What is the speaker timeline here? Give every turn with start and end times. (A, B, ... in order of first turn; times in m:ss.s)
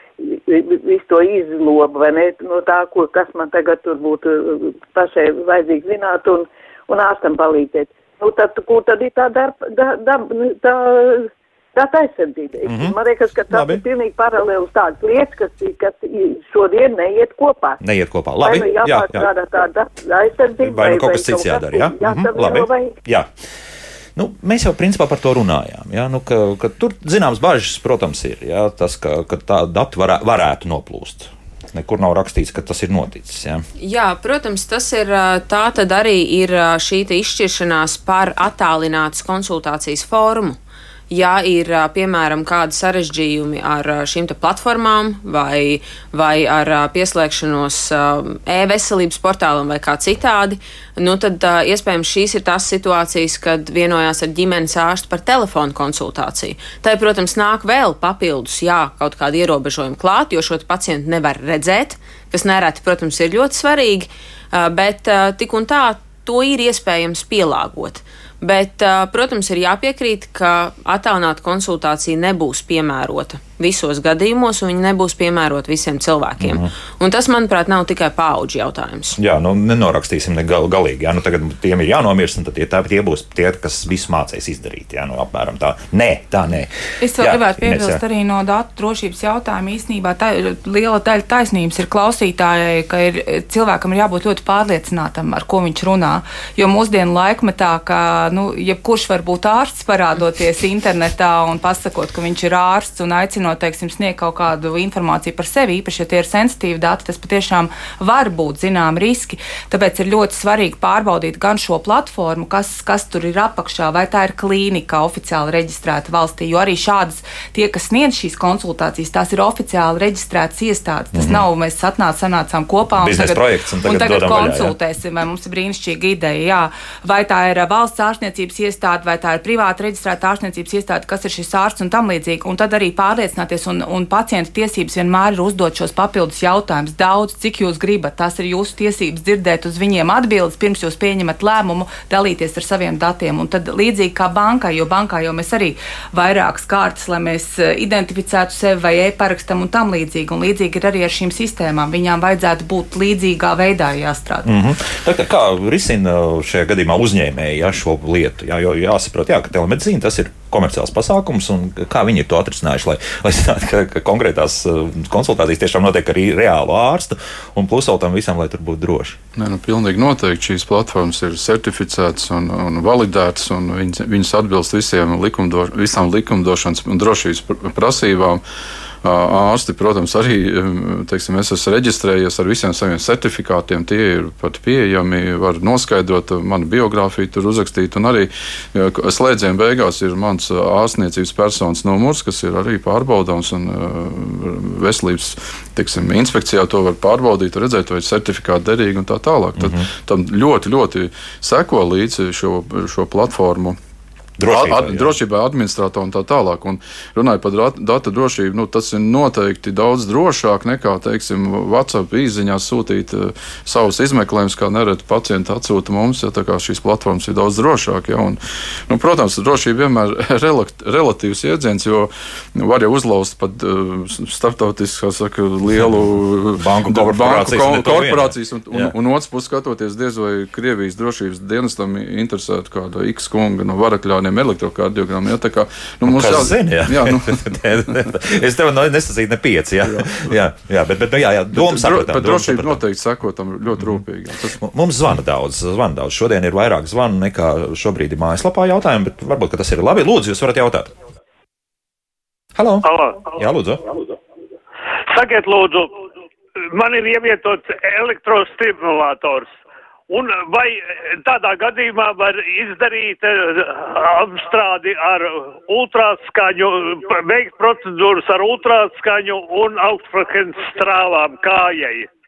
0:00.2-0:17.8 A
0:12.6-0:12.9 B
0:13.5-0:13.8 B
0:17.8-0:19.2 B
0:18.4-0:22.9 A
0:20.6-0:23.3 B
0:24.2-0:33.6 B
0:33.8-0:40.6 C
0:41.1-1:19.2 C
1:16.4-1:16.7 B
1:19.2-1:28.0 B
1:27.0-2:34.5 D
2:01.1-2:01.4 B
2:03.0-2:04.8 B
2:34.4-2:49.2 B
2:49.4-2:58.4 E
2:59.0-3:23.8 E
3:19.6-3:19.8 B
3:24.4-3:25.2 B
3:24.5-3:58.0 E
3:46.6-3:48.9 B
3:56.0-4:02.8 B
3:59.8-4:00.3 E
4:01.5-4:04.6 E
4:04.6-4:10.9 B
4:12.6-4:13.8 B
4:12.8-4:13.2 F
4:15.1-4:15.9 F
4:16.7-4:19.5 F
4:20.1-4:32.1 F